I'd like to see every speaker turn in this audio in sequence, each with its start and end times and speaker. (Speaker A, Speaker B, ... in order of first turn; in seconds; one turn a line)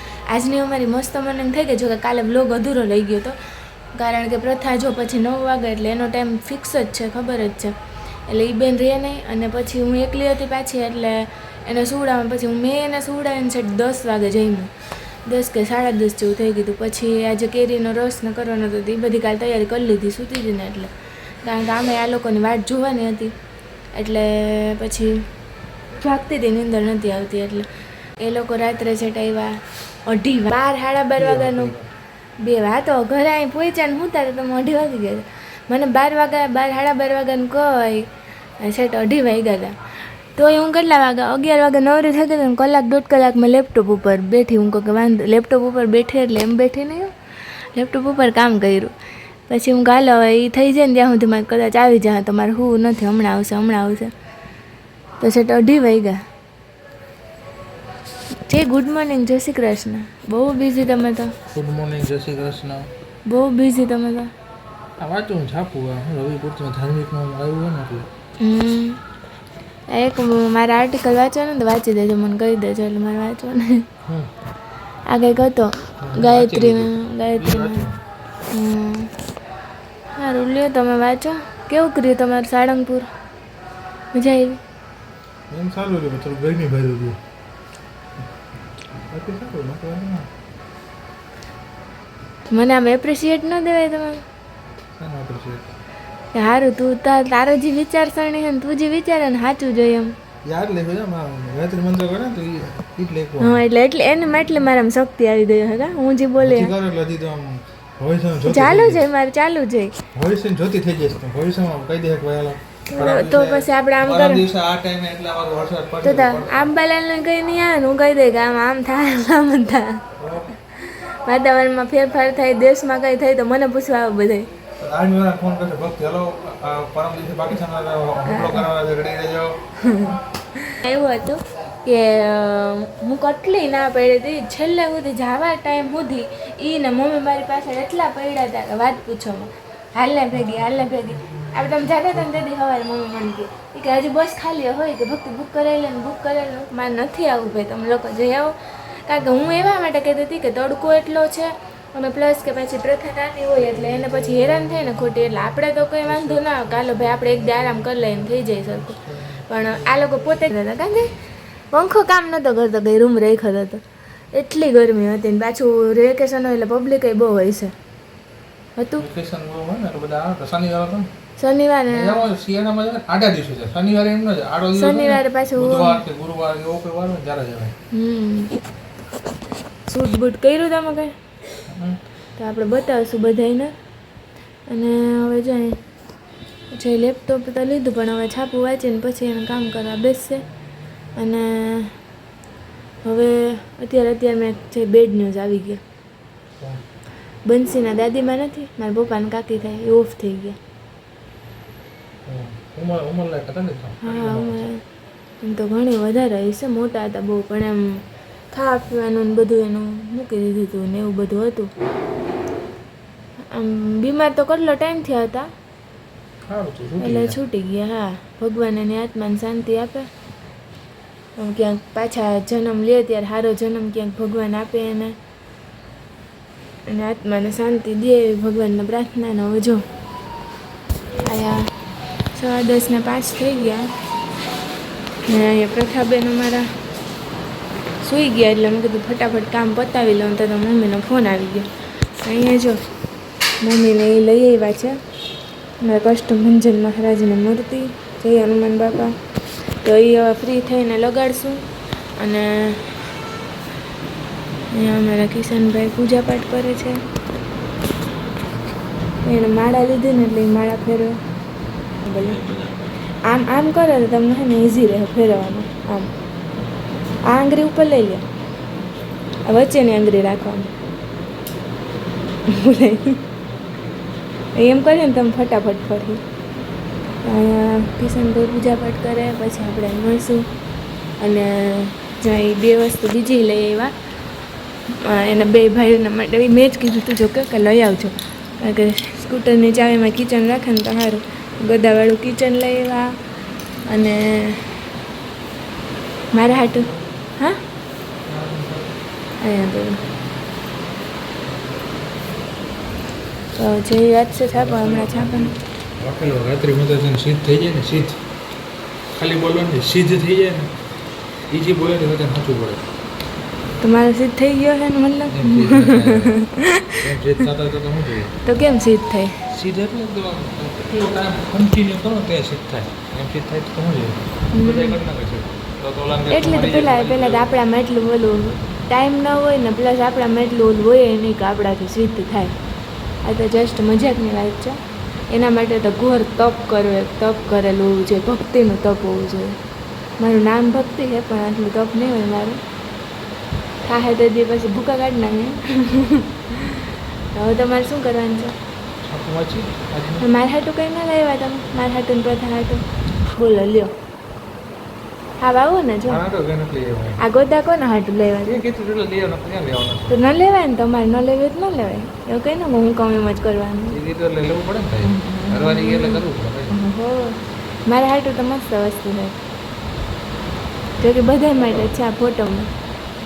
Speaker A: 0.3-3.4
Speaker A: 3.9-7.7
Speaker A: 8.3-14.7
Speaker A: 15.3-20.9
Speaker A: 21.4-23.3
Speaker A: 23.9-25.2
Speaker A: 26.0-27.7
Speaker A: 28.2-29.6
Speaker A: 30.1-31.7
Speaker B: 31.1-31.9
Speaker A: 32.4-38.1
Speaker A: 38.6-39.7
Speaker A: 40.4-48.9
Speaker A: 49.5-54.1
Speaker A: 55.2-56.2
Speaker A: 58.5-61.4
Speaker B: 61.5-62.9
Speaker A: 63.3-64.3
Speaker B: 65.0-68.1
Speaker A: 68.4-69.0
Speaker A: 69.9-73.8
Speaker A: 75.1-77.8
Speaker B: 76.0-78.0
Speaker A: 78.5-79.1
Speaker A: 80.2-83.1
Speaker A: 84.1-84.6
Speaker B: 85.5-87.2
Speaker B: 89.0-90.3
Speaker A: 92.5-94.2
Speaker B: 95.0-95.7
Speaker A: 96.3-100.1
Speaker B: 100.5-103.6
Speaker A: 103.4-106.7
Speaker B: 106.4-109.1
Speaker A: 108.4-109.9
Speaker B: 110.1-116.7
Speaker A: 112.9-114.5
Speaker A: 116.0-120.0
Speaker B: 120.2-120.5
Speaker A: 120.8-124.5
Speaker B: 124.8-129.6
Speaker A: 128.2-128.7
Speaker A: 129.8-161.1
Speaker B: 153.8-160.4
Speaker A: 161.7-163.8
Speaker A: 164.3-167.7
Speaker A: 168.8-169.1
Speaker B: 169.0-171.1
Speaker A: 171.4-172.2
Speaker B: 171.9-177.7
Speaker A: 174.7-176.0
Speaker A: 177.9-178.5
Speaker A: 179.9-181.1
Speaker B: 181.7-182.0
Speaker A: 182.4-183.7
Speaker A: 184.7-185.8
Speaker A: 186.7-190.4
Speaker A: 191.2-191.9
Speaker A: 193.0-195.8
Speaker A: 197.5-200.6
Speaker B: 202.3-204.7
Speaker A: 204.0-204.8
Speaker A: 205.4-208.0
Speaker A: 208.5-211.7
Speaker A: 213.5-215.5
Speaker B: 216.5-217.4
Speaker A: 217.0-220.1
Speaker A: 221.4-225.2
Speaker A: 226.9-229.8
Speaker A: 231.2-231.7
Speaker A: 232.3-233.9
Speaker A: 235.3-236.7
Speaker A: 238.0-241.7
Speaker A: 242.2-242.8
Speaker A: 243.6-245.0
Speaker A: 245.8-249.1
Speaker A: 249.8-251.6
Speaker A: 252.2-253.0
Speaker A: 254.7-257.0
Speaker A: 259.2-261.2
Speaker A: 262.0-262.4
Speaker A: 263.2-266.1
Speaker A: 267.3-268.2
Speaker A: 269.5-270.7
Speaker A: 272.5-273.2
Speaker A: 274.6-276.2
Speaker A: 277.2-280.4
Speaker A: 281.2-283.9
Speaker A: 285.0-293.1
Speaker A: 293.9-294.7
Speaker A: 296.3-297.6
Speaker B: 296.6-297.0
Speaker B: 298.2-298.9
Speaker A: 299.4-300.0
Speaker A: 303.6-305.5
Speaker B: 304.5-308.2
Speaker B: 309.1-310.7
Speaker B: 311.5-312.8
Speaker A: 313.8-317.0
Speaker B: 315.3-316.4
Speaker B: 317.0-318.3
Speaker A: 318.4-319.4
Speaker B: 319.5-327.5
Speaker A: 324.5-325.0
Speaker A: 326.3-332.5
Speaker A: 333.2-334.8
Speaker A: 335.3-339.6
Speaker A: 340.2-342.6
Speaker A: 343.9-348.5
Speaker B: 349.0-350.2
Speaker A: 350.2-352.8
Speaker A: 353.4-353.9
Speaker A: 355.4-356.2
Speaker B: 356.1-357.2
Speaker A: 357.2-358.6
Speaker B: 358.5-360.2
Speaker A: 360.1-364.0
Speaker B: 363.9-366.8
Speaker A: 365.0-369.4
Speaker A: 371.0-372.7